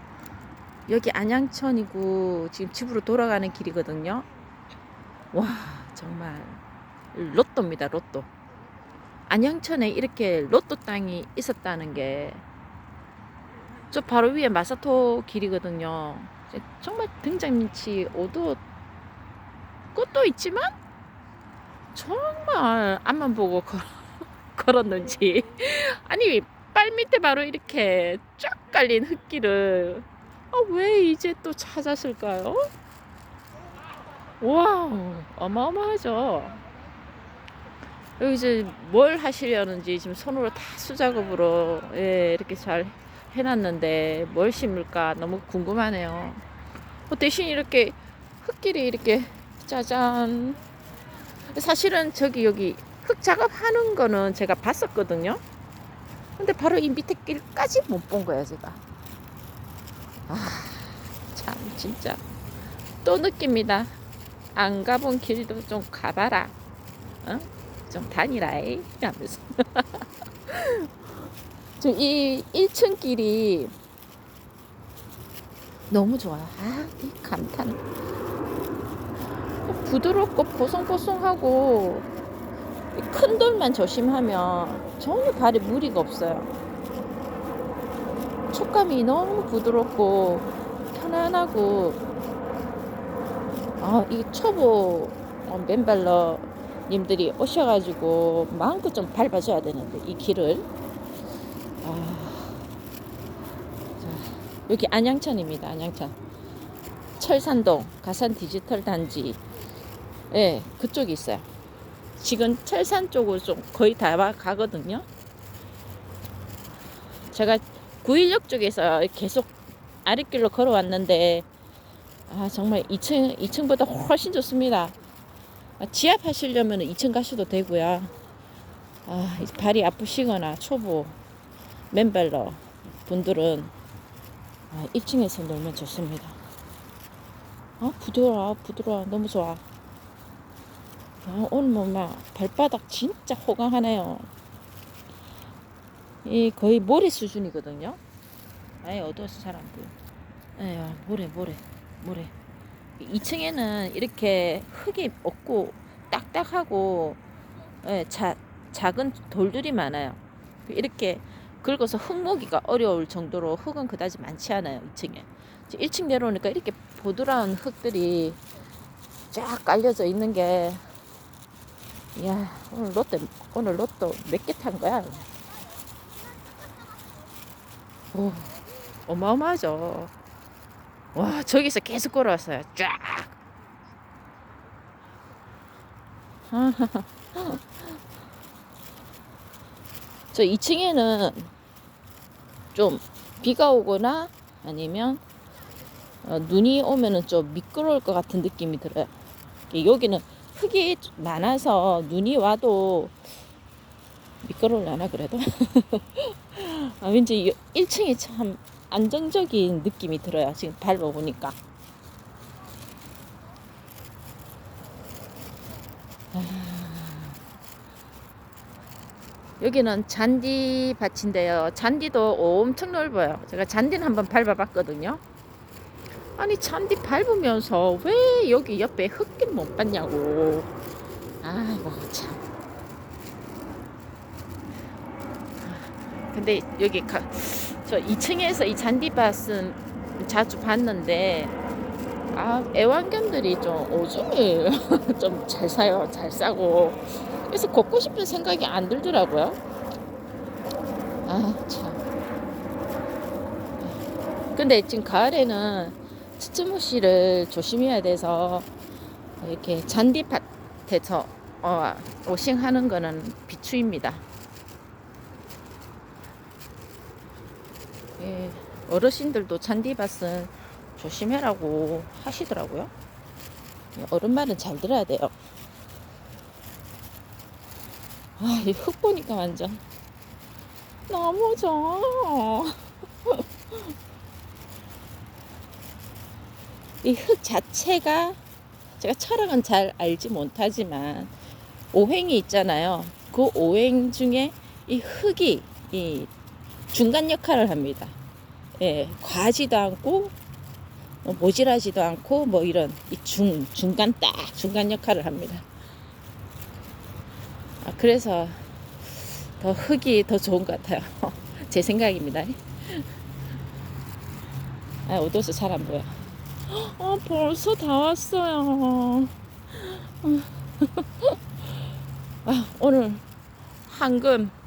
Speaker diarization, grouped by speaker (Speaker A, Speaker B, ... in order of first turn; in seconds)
Speaker A: 0.9-4.3, 5.3-6.6, 7.1-8.3, 9.3-12.4, 13.9-18.6, 19.9-20.7, 21.9-24.0, 24.5-32.6, 34.4-36.6, 38.2-46.4, 47.1-50.6, 51.5-55.4, 56.4-58.8, 60.3-62.2, 63.0-63.9, 64.5-66.5, 67.2-70.9, 71.8-73.7, 75.9-77.8, 79.6-82.1, 82.9-86.5, 88.5-92.0, 93.8-100.7, 101.8-102.7, 104.0-106.2, 107.2-109.4, 110.3-111.5, 112.2-115.0, 117.3-119.5, 120.0-121.5, 122.3-124.9, 125.8-128.1, 129.1-131.2, 131.9-133.7, 134.7-136.4, 137.8-139.6, 141.2-144.3, 146.2-148.0, 148.8-149.9, 150.6-152.3, 153.0-157.2, 157.8-168.4, 169.3-170.8, 172.2-175.3, 178.1-180.1, 181.1-183.3, 186.5-187.6, 190.3-191.5, 192.7-195.2, 196.2-199.1, 199.7-203.1, 204.4-211.6, 216.3-217.4, 219.6-225.2, 226.4-230.7, 231.4-232.4, 235.6-241.5, 242.3-249.6, 251.2-252.0, 254.5-258.7, 259.4-264.2, 268.2-272.9, 273.9-275.3, 278.4-279.8, 281.1-283.9, 287.0-288.4, 289.0-291.3, 291.9-296.3, 296.9-298.1, 298.8-300.3, 301.2-305.6, 307.8-308.6, 309.3-313.1, 315.1-316.2, 316.7-321.4, 322.4-323.2, 323.9-324.5